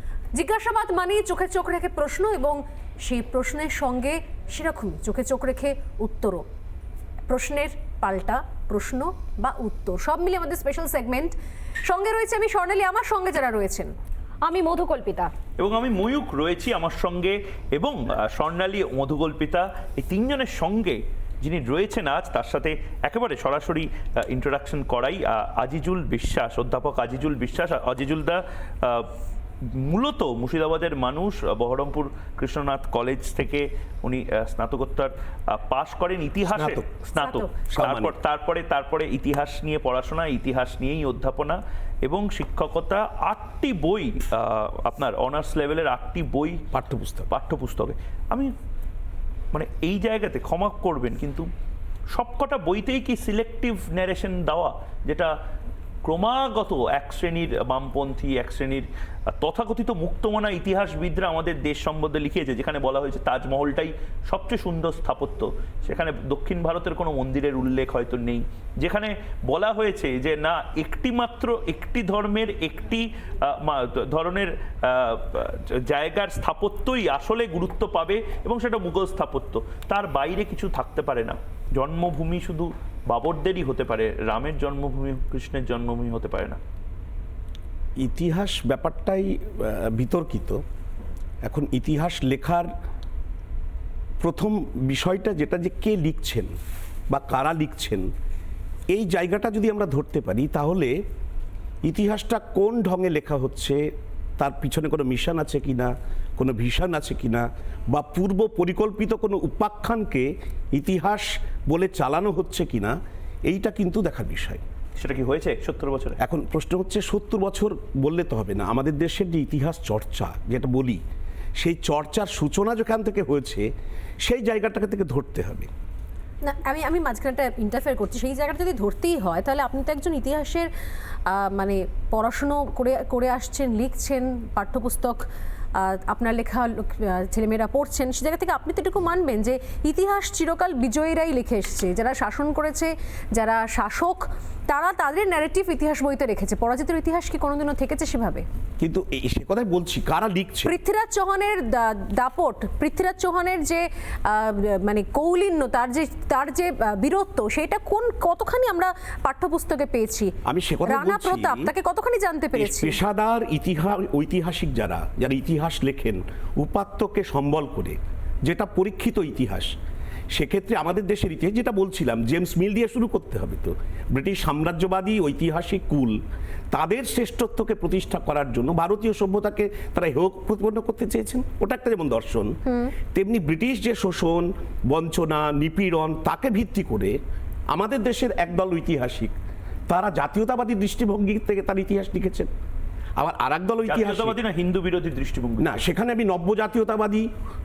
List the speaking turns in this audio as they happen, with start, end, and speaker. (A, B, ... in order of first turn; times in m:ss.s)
0:00.3-0:06.4 A
0:07.3-0:15.3 A
0:15.6-0:29.1 B
0:29.7-0:46.6 B
0:36.4-0:36.8 C
0:37.2-0:37.5 A
0:37.6-0:38.1 C
0:46.7-0:47.3 C
0:47.3-0:48.5 B
0:49.5-0:51.5 B
0:52.1-0:55.3 B
0:56.0-1:26.6 B
1:28.0-1:30.6 C
1:31.4-1:32.7 C
1:34.2-1:36.5 C
1:37.1-1:38.1 C
1:38.9-1:40.9 C
1:41.8-1:43.8 C
1:44.4-1:54.6 C
1:55.0-1:56.2 B
1:56.2-2:01.0 C
2:01.6-2:03.7 C
2:04.2-2:05.7 C
2:06.4-2:10.7 A
2:11.3-2:15.2 A
2:15.8-2:28.4 A
2:28.8-2:30.7 C
2:30.6-2:40.3 A
2:40.4-2:41.7 C
2:40.8-2:43.0 A
2:42.5-2:49.7 C
2:50.3-2:56.2 C
2:56.7-3:07.2 C
3:07.7-3:09.3 C
3:09.9-3:12.5 C
3:13.2-3:14.4 C
3:13.8-3:15.8 B
3:15.6-3:17.3 C